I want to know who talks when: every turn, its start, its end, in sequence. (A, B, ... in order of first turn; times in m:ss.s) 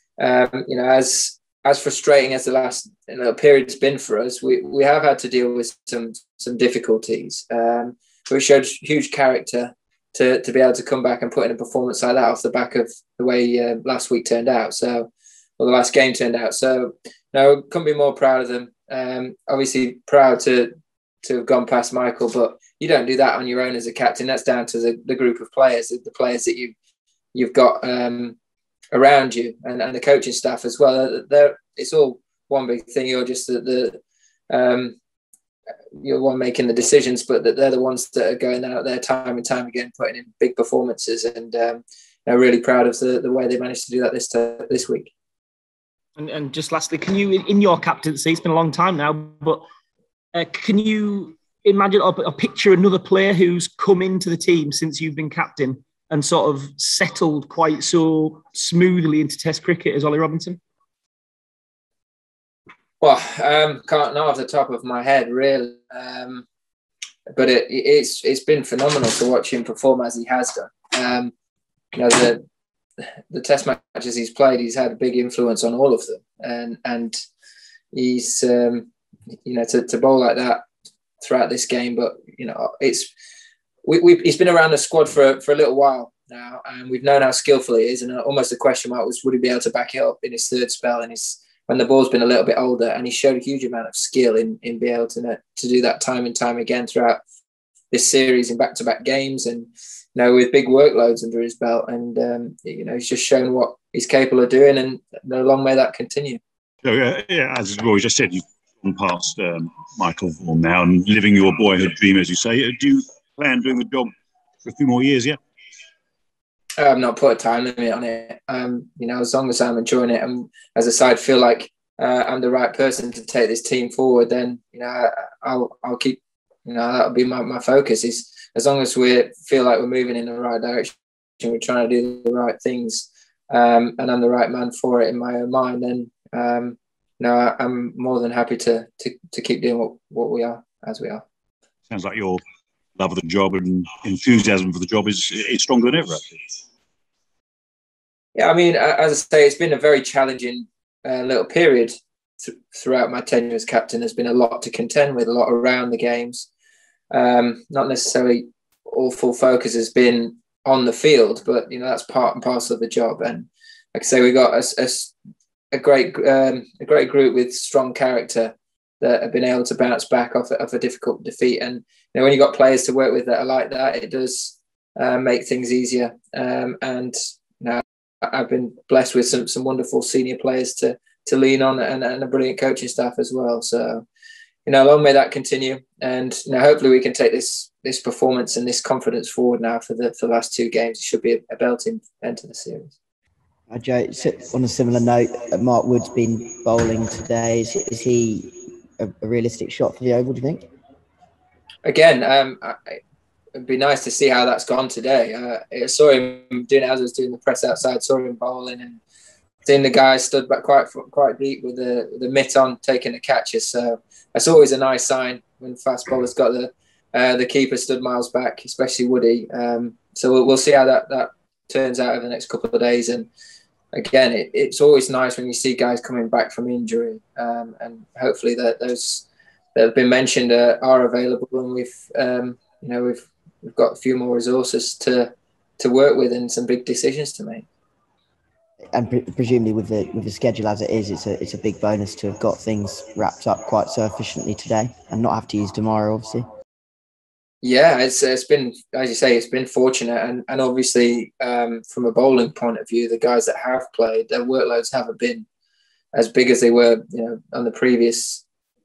0:00.2-0:20.7 A
0:21.2-0:26.7 A
0:27.3-0:28.4 A
0:28.9-0:34.0 A
0:34.5-0:35.0 A
0:36.0-0:45.1 A
0:46.2-0:49.6 B
0:50.3-1:00.6 B
1:03.0-1:06.4 A
1:07.3-1:11.3 A
1:11.9-1:12.4 A
1:13.3-1:17.2 A
1:17.9-1:18.9 A
1:19.4-1:20.6 A
1:21.2-1:23.1 A
1:23.8-1:37.2 A
1:37.9-1:46.4 A
1:46.8-1:54.1 C
1:54.6-1:55.4 C
1:56.8-2:21.2 A
2:21.9-2:22.4 C
2:23.0-2:26.6 C
2:28.3-2:36.5 A
2:37.1-2:45.1 A
2:45.7-3:04.0 A
3:04.6-3:12.9 A
3:13.7-3:20.6 D
3:21.8-3:23.0 A
3:23.6-3:29.0 A
3:29.6-3:43.3 A
3:43.9-3:57.6 A
3:58.9-4:06.5 D
4:07.6-4:15.4 A
4:16.1-4:18.4 A